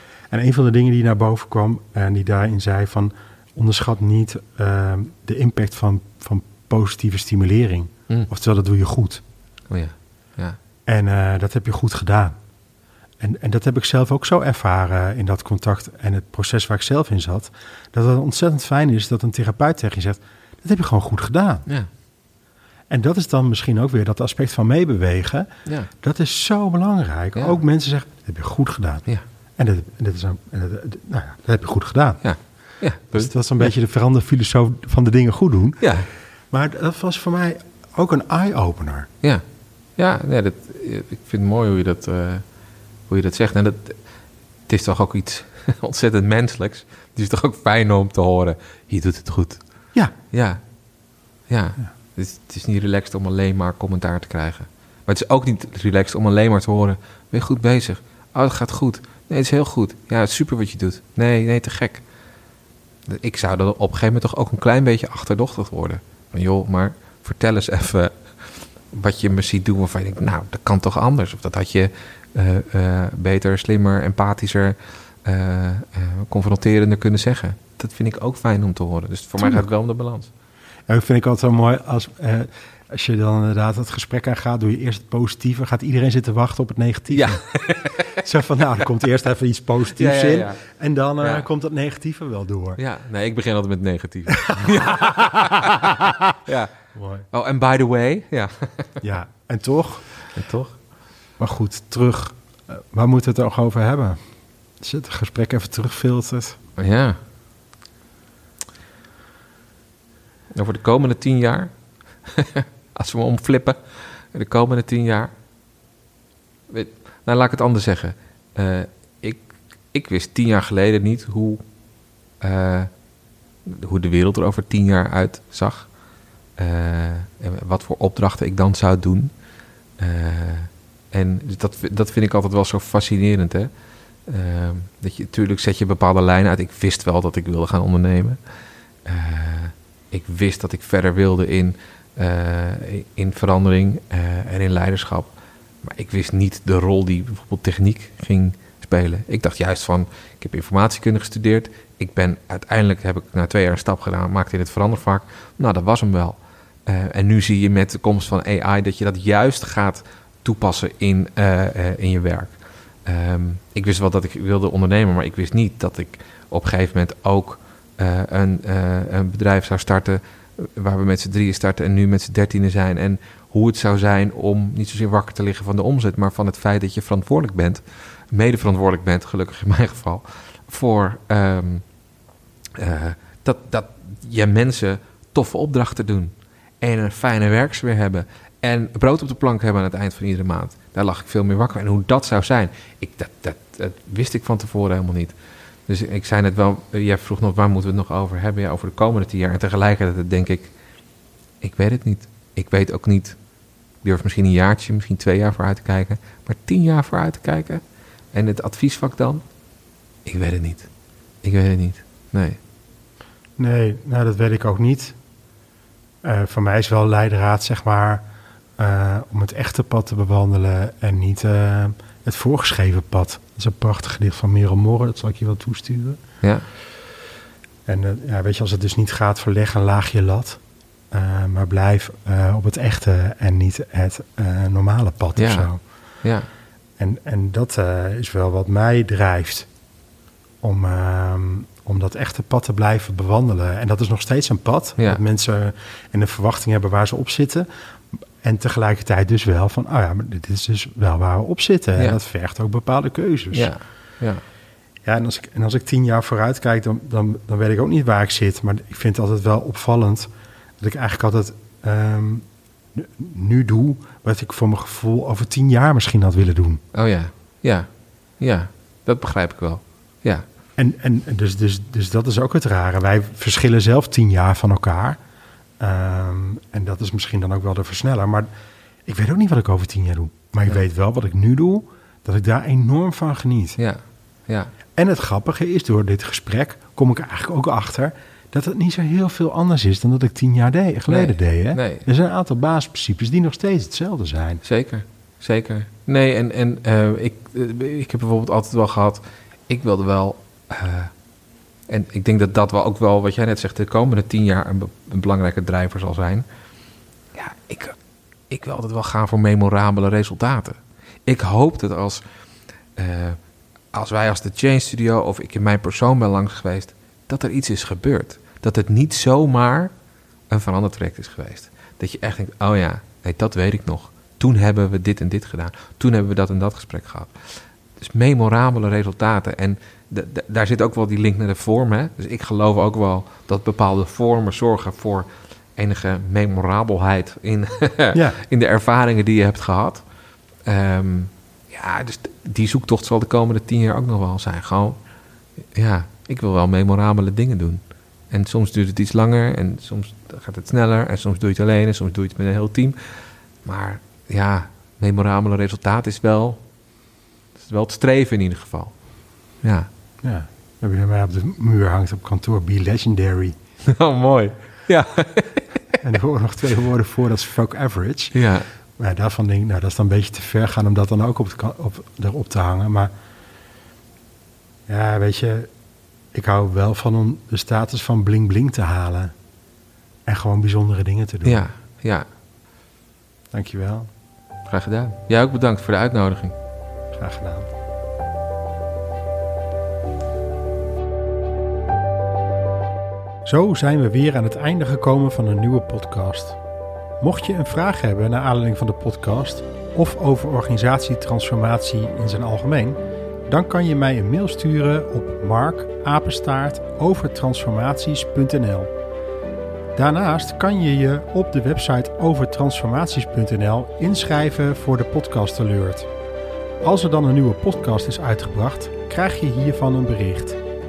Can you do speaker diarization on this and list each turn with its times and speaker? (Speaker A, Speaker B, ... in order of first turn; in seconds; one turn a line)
Speaker A: 0.3-9.2
Speaker B: 9.7-10.6
Speaker A: 10.9-12.4
Speaker A: 13.2-21.6
Speaker A: 22.9-25.5
Speaker A: 26.0-29.1
Speaker A: 29.6-32.2
Speaker B: 32.2-33.7
Speaker A: 33.1-35.9
Speaker B: 35.8-36.1
Speaker A: 36.5-39.1
Speaker B: 40.0-42.5
Speaker B: 43.1-44.0
Speaker B: 44.7-49.6
Speaker B: 50.3-50.6
Speaker B: 51.5-62.0
Speaker B: 63.1-80.3
Speaker A: 79.4-79.7
Speaker A: 80.9-92.8
Speaker B: 87.1-88.2
Speaker B: 90.0-90.6
Speaker B: 91.2-91.5
Speaker B: 92.8-96.7
Speaker A: 94.5-95.8
Speaker A: 97.0-97.3
Speaker B: 97.3-99.0
Speaker A: 99.0-100.1
Speaker B: 100.3-100.8
Speaker A: 101.4-104.2
Speaker A: 104.8-106.6
Speaker B: 106.8-107.2
Speaker B: 110.5-111.7
Speaker B: 112.2-115.3
Speaker B: 116.7-121.6
Speaker B: 122.4-122.9
Speaker B: 123.7-125.9
Speaker B: 126.6-129.3
Speaker B: 130.0-133.7
Speaker B: 134.3-138.4
Speaker B: 139.1-145.3
Speaker B: 145.8-181.8
Speaker B: 182.8-195.3
Speaker B: 195.9-200.7
Speaker B: 201.6-203.4
Speaker B: 204.0-207.8
Speaker B: 208.3-209.4
Speaker B: 210.2-210.9
Speaker B: 211.4-212.6
Speaker A: 213.6-215.2
Speaker A: 216.2-218.2
Speaker A: 218.8-226.2
Speaker A: 227.9-230.6
Speaker A: 231.1-235.8
Speaker B: 235.4-235.7
Speaker B: 236.2-236.5
Speaker A: 237.0-239.7
Speaker A: 240.6-253.7
Speaker B: 253.5-254.4
Speaker A: 255.0-266.8
Speaker B: 266.9-267.9
Speaker B: 268.4-270.4
Speaker A: 270.8-275.2
Speaker A: 275.8-278.5
Speaker A: 279.1-283.8
Speaker B: 283.8-284.7
Speaker A: 284.9-294.6
Speaker B: 291.1-292.1
Speaker B: 294.6-301.1
Speaker B: 301.9-306.5
Speaker B: 307.3-308.0
Speaker B: 308.5-312.2
Speaker B: 313.0-313.4
Speaker B: 313.9-319.9
Speaker B: 320.5-340.0
Speaker B: 340.7-345.0
Speaker B: 345.8-356.6
Speaker B: 357.6-358.9
Speaker B: 359.6-359.9
Speaker A: 360.2-363.6
Speaker B: 363.9-366.0
Speaker A: 366.0-368.4
Speaker B: 368.3-368.7
Speaker A: 369.0-373.1
Speaker A: 374.9-375.7
Speaker A: 376.3-379.3
Speaker A: 380.3-381.6
Speaker B: 381.4-382.3
Speaker A: 383.5-384.1
Speaker B: 384.7-386.6
Speaker A: 387.1-387.7
Speaker A: 393.5-396.6
Speaker A: 397.2-408.9
Speaker A: 409.9-416.1
Speaker A: 416.8-420.6